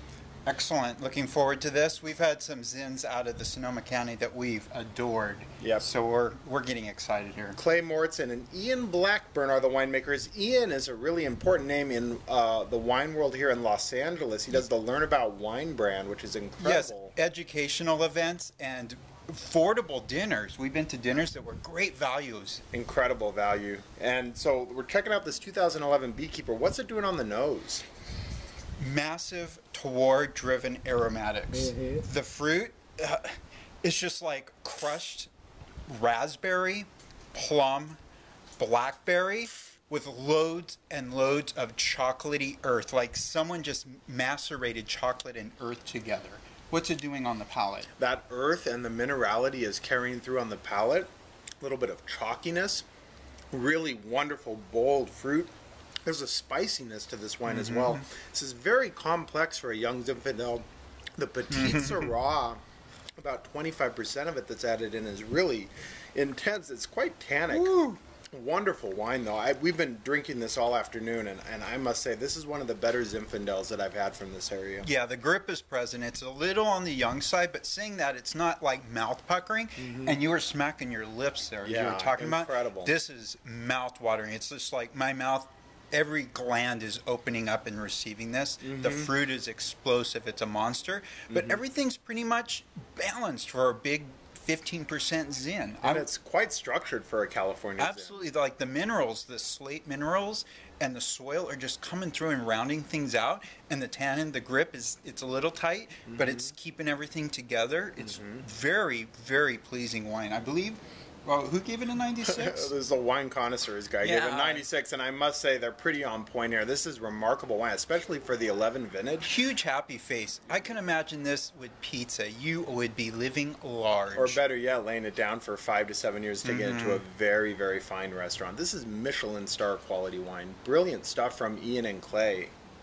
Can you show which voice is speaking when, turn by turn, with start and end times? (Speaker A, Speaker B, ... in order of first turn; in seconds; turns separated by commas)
Speaker A: 0.5-7.6, Speaker B: 5.6-5.9, Speaker B: 7.5-17.1, Speaker A: 16.6-22.6, Speaker B: 22.7-27.8, Speaker A: 28.8-35.3, Speaker A: 35.9-38.0, Speaker A: 38.6-47.9, Speaker B: 48.0-51.1, Speaker B: 51.6-52.9, Speaker B: 53.5-55.5, Speaker B: 56.1-60.7, Speaker A: 57.5-58.0, Speaker B: 61.2-62.6, Speaker A: 61.5-62.1, Speaker B: 63.2-67.8, Speaker A: 67.5-68.0, Speaker B: 68.3-74.9, Speaker A: 74.8-96.1, Speaker B: 79.9-80.1, Speaker B: 81.7-83.0, Speaker B: 88.6-89.1, Speaker B: 91.3-91.6, Speaker B: 95.8-98.2, Speaker A: 97.8-112.7, Speaker B: 106.1-106.5, Speaker B: 108.1-108.4, Speaker B: 112.2-119.3, Speaker A: 114.0-114.7, Speaker A: 119.2-124.4, Speaker B: 124.2-132.5, Speaker A: 126.4-127.0